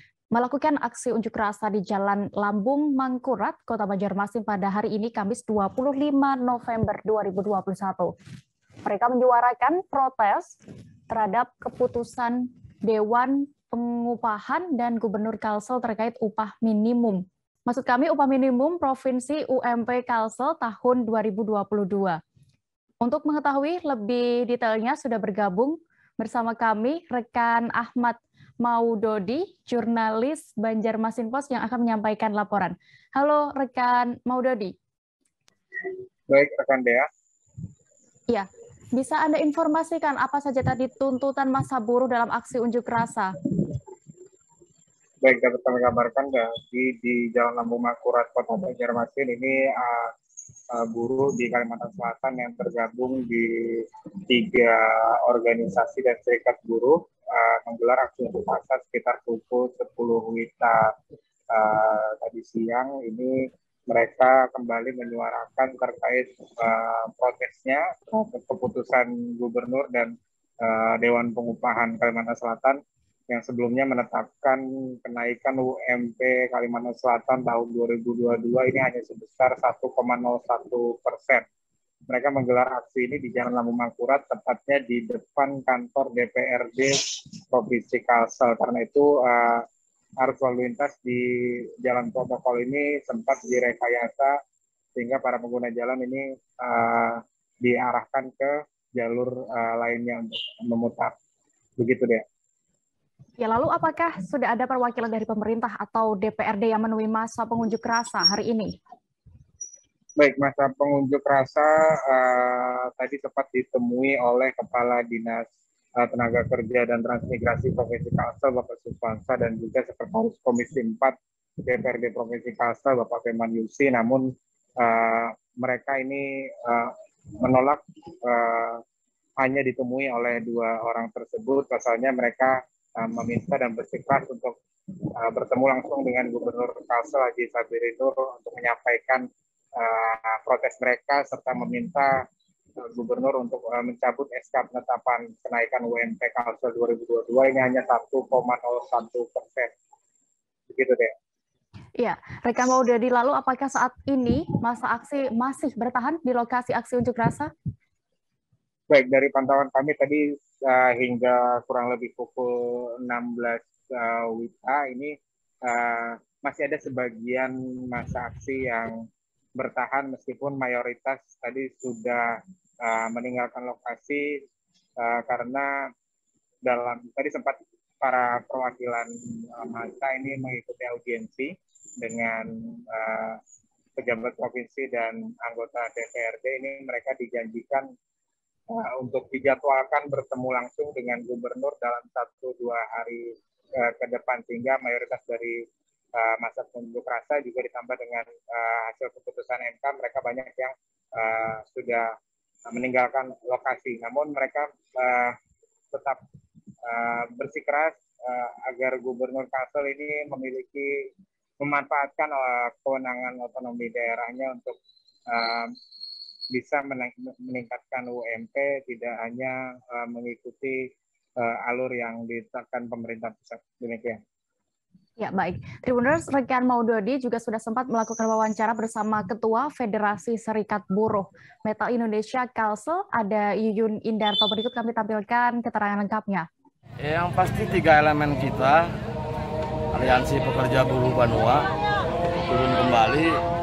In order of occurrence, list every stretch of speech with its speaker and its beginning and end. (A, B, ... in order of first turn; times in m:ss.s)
0:00.3-0:08.1 A
0:08.8-0:10.6 A
0:11.1-0:22.2 A
0:23.0-0:34.7 A
0:36.3-0:37.0 B
0:38.3-0:43.4 A
0:45.2-0:50.1 B
0:50.7-1:00.9 B
1:01.5-1:03.4 B
1:03.9-1:21.4 B
1:22.1-1:29.6 B
1:30.2-1:34.3 B
1:35.0-1:41.1 B
1:41.8-1:42.2 B
1:43.4-1:48.8 A
1:50.2-2:08.8 B
2:09.4-2:14.6 B
2:15.2-2:19.2 B
2:19.8-2:22.2 B
2:22.8-2:29.7 B
2:30.7-2:31.1 B
2:32.0-2:37.5 A
2:38.9-2:45.2 B
2:45.7-2:49.0 B
2:49.6-2:54.4 B
2:55.0-2:55.7 B
2:56.6-3:03.4 B
3:04.0-3:07.9 B
3:08.7-3:15.6 B
3:16.2-3:22.1 B
3:22.7-3:25.4 B
3:25.9-3:26.2 B
3:26.8-3:34.8 B
3:35.3-3:35.7 B
3:36.5-3:44.2 B
3:45.2-3:56.5 A
3:57.0-3:58.9 C
3:59.9-4:01.7 C
4:02.5-4:03.4 C